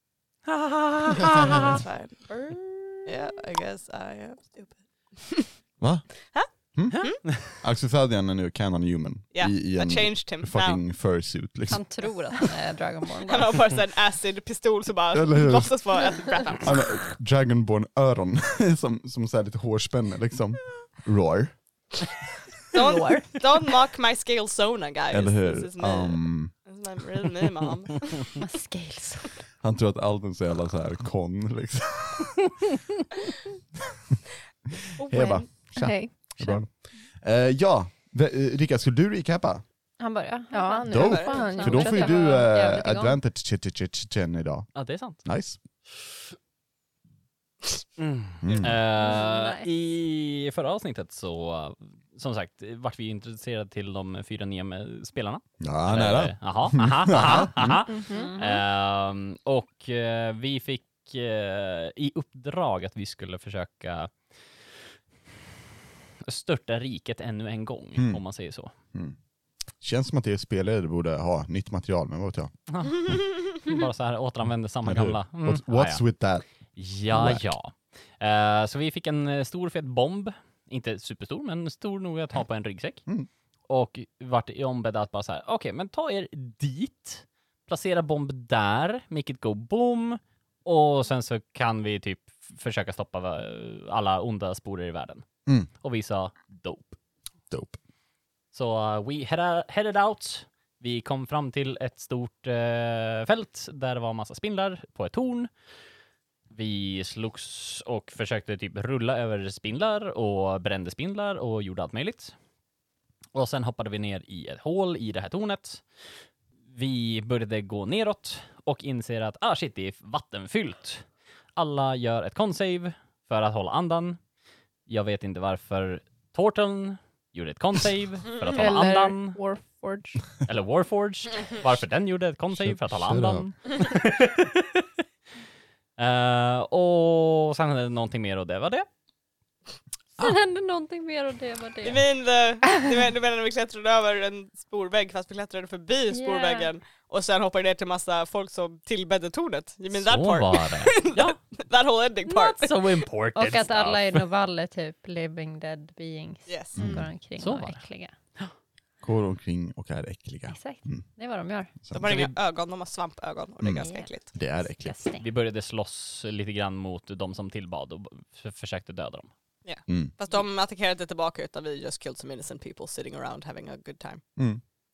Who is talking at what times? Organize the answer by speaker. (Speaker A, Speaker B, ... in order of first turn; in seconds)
Speaker A: 0.5-1.8, 6.9-7.6, 44.8-45.2, 48.0-64.1, 66.3-68.7, 72.7-76.0, 76.8-83.0, 83.7-95.2, 95.8-97.0, 98.5-105.5, 106.5-112.3, 113.3-115.8, 116.7-124.2, 124.9-129.4, 130.5-134.9, 136.0-138.9, 149.9-151.4, 152.3-154.3, 157.4-157.8, 162.0-162.4, 165.2-169.3
Speaker B: 1.2-2.2, 3.1-5.5, 6.3-7.2, 9.3-10.8, 13.3-16.8, 22.7-28.1, 41.0-41.5, 73.0-73.5, 141.8-152.8, 156.5-156.8, 161.9-164.3, 169.7-174.2
Speaker C: 5.8-6.1, 6.8-11.8, 15.1-15.7, 16.6-21.6, 25.1-26.5, 29.6-32.4, 35.0-39.6, 40.9-44.7, 45.2-45.6, 48.4-48.8, 55.6-57.9, 68.0-68.2, 69.8-72.5, 74.8-76.5, 77.1-77.5, 97.5-97.8, 132.5-133.5, 156.8-157.1, 159.0-161.0, 161.8-162.1, 163.6-165.0, 169.9-170.2, 174.4-174.6
Speaker D: 11.7-13.5, 23.0-23.2, 28.4-29.2, 40.0-43.2, 49.0-49.7, 58.1-58.6, 140.2-142.0, 146.1-146.7, 153.3-158.1, 160.5-161.7, 163.8-164.1, 164.8-165.3
Speaker E: 28.4-28.7, 35.0-36.6, 40.5-42.5, 57.9-58.3, 128.5-130.3, 156.8-157.1